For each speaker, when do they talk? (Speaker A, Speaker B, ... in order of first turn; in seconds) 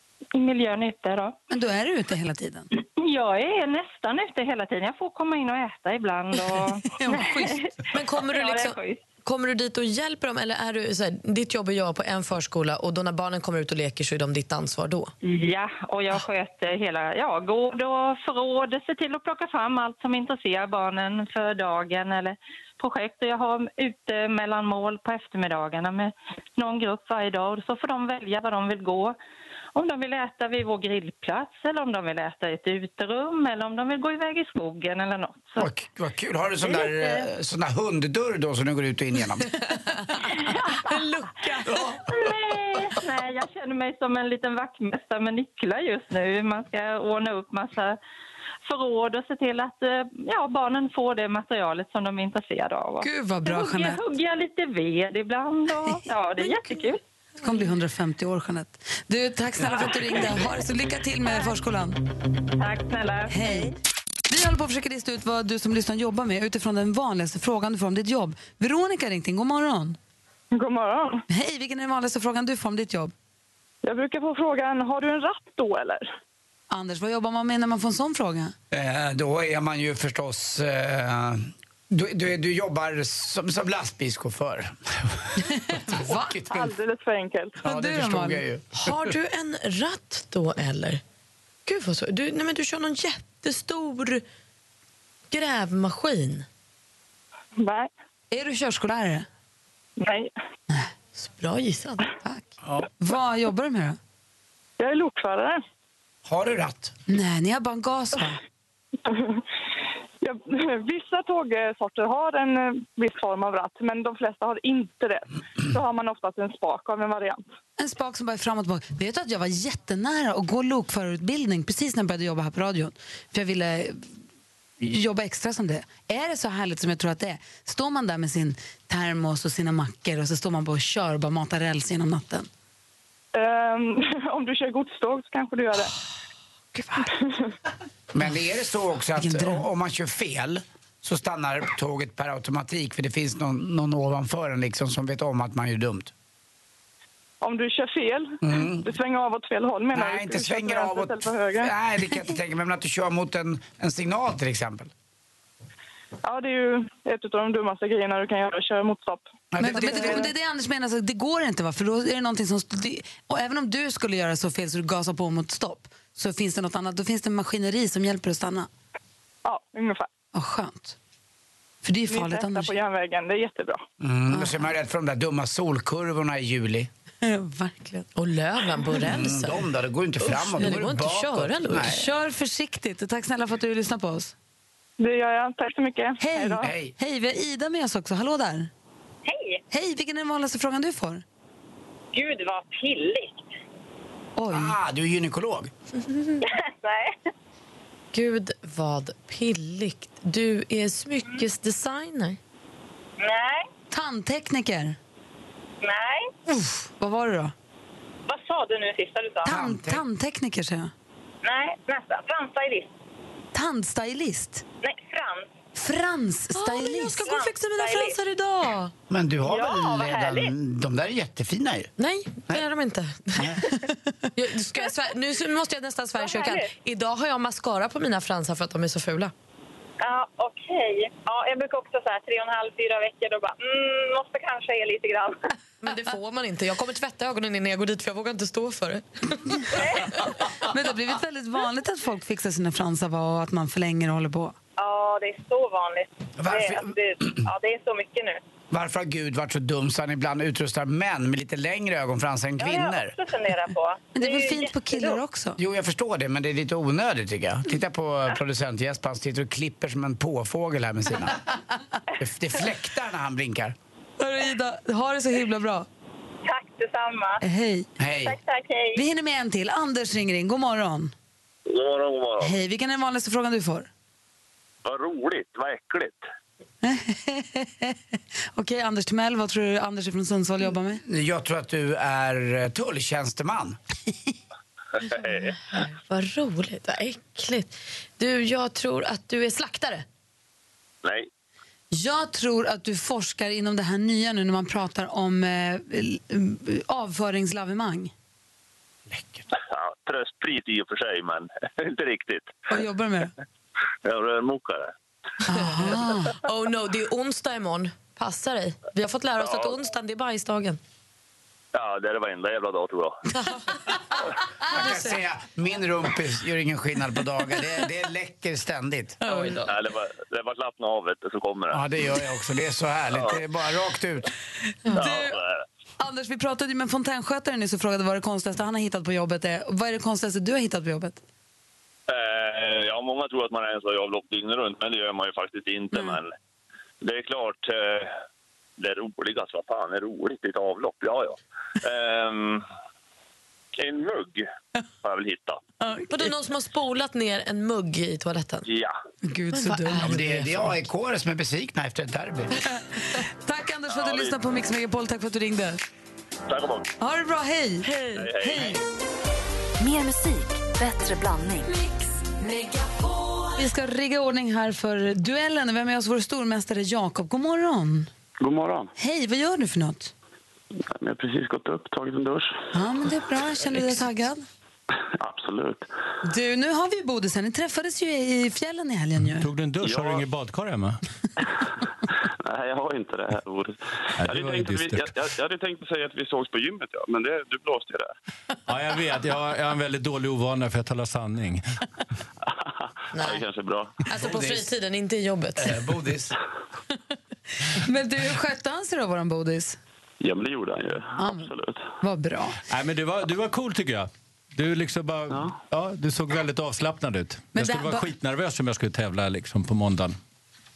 Speaker A: 0.3-1.3, 2.8-9.0, 15.2-29.2, 29.8-35.7, 36.7-37.2, 42.1-48.0, 48.6-57.0, 62.6-63.4
Speaker B: 1.5-2.7, 6.9-7.6, 53.0-54.0, 55.9-56.8, 57.4-62.0, 63.3-63.7, 64.3-70.0, 71.3-73.1, 76.7-78.5, 85.5-86.6, 87.6-88.4, 98.3-99.3, 102.2-102.5, 103.0-104.0, 107.1-108.4, 117.8-124.1, 124.8-132.5, 136.7-137.1, 139.2-139.7, 159.6-168.7, 170.3-171.0, 171.8-172.7, 174.3-174.7, 177.2-178.1, 181.8-184.3, 186.2-188.7, 189.7-191.2, 194.4-194.7, 203.9-205.0, 206.5-207.5, 209.4-210.9, 213.5-214.6, 215.8-217.2, 240.6-244.6, 254.2-255.6, 264.2-265.9, 267.4-267.9, 268.9-271.1, 272.4-273.9, 276.8-278.0, 278.6-281.0, 291.9-298.1, 302.7-303.3, 305.5-306.3, 324.9-325.4, 326.0-331.2, 349.2-350.1, 352.9-355.8, 357.0-357.9, 358.4-358.8, 363.6-368.1, 369.0-370.1, 372.7-374.4, 376.2-379.5, 397.7-399.8, 401.2-402.6, 407.6-408.1
Speaker C: 7.9-15.1, 40.9-41.7, 88.7-91.0, 91.7-94.2, 95.3-96.5, 101.2-102.0, 178.2-179.6, 180.2-182.1, 196.0-196.4, 198.1-202.4, 216.6-218.9, 222.0-223.7, 224.4-229.3, 235.8-240.1, 285.2-290.1, 305.6-310.8, 314.7-315.1, 319.2-319.6, 346.0-348.6, 349.6-350.4, 357.8-358.3, 393.1-393.4, 394.0-395.8
Speaker D: 35.6-39.5, 78.7-86.7, 87.6-88.9, 106.3-106.9, 138.1-146.1, 148.4-148.9, 149.9-154.9, 159.5-160.3, 174.0-176.9, 179.0-182.0, 186.6-186.9, 194.5-195.7, 209.4-210.0, 219.1-221.9, 246.4-247.4, 248.7-253.2, 255.6-261.4, 262.2-263.8, 268.0-268.4, 281.0-283.8, 314.7-319.2, 321.7-324.3, 350.0-352.5, 395.6-396.3
Speaker E: 70.5-71.2, 73.8-76.1, 86.5-87.6, 97.6-97.9, 100.0-100.3, 104.8-105.6, 109.1-109.4, 110.2-117.4, 133.3-135.9, 147.4-151.7, 156.2-159.3, 159.8-160.2, 169.4-170.1, 172.1-173.8, 185.0-186.7
Speaker F: 189.2-189.6, 192.1-193.4, 196.4-197.3, 203.2-203.7, 205.8-206.3, 208.3-209.5, 211.4-212.9, 214.8-215.5, 217.2-218.2, 219.4-220.5, 226.2-226.7, 230.0-235.5, 244.8-248.4, 252.6-255.2, 266.4-267.4, 268.2-269.0
Speaker G: 271.7-272.6, 274.8-276.2, 285.1-285.5, 291.0-291.3, 299.5-302.6, 304.0-304.9, 309.4-309.7, 311.7-313.2, 319.6-321.8, 323.1-323.4, 324.9-325.6, 332.1-336.3, 337.0-338.1, 338.8-342.6, 343.8-344.5, 345.0-345.7, 348.7-348.9, 353.9-354.4, 356.5-356.9, 358.1-358.8
Speaker H: 359.8-361.7
Speaker I: 368.4-368.9, 370.9-372.5, 375.2-375.9, 379.8-380.3, 382.4-388.1, 393.2-394.1, 400.2-401.8
Speaker J: 379.3-381.0, 384.2-385.1, 388.7-391.6, 402.7-410.2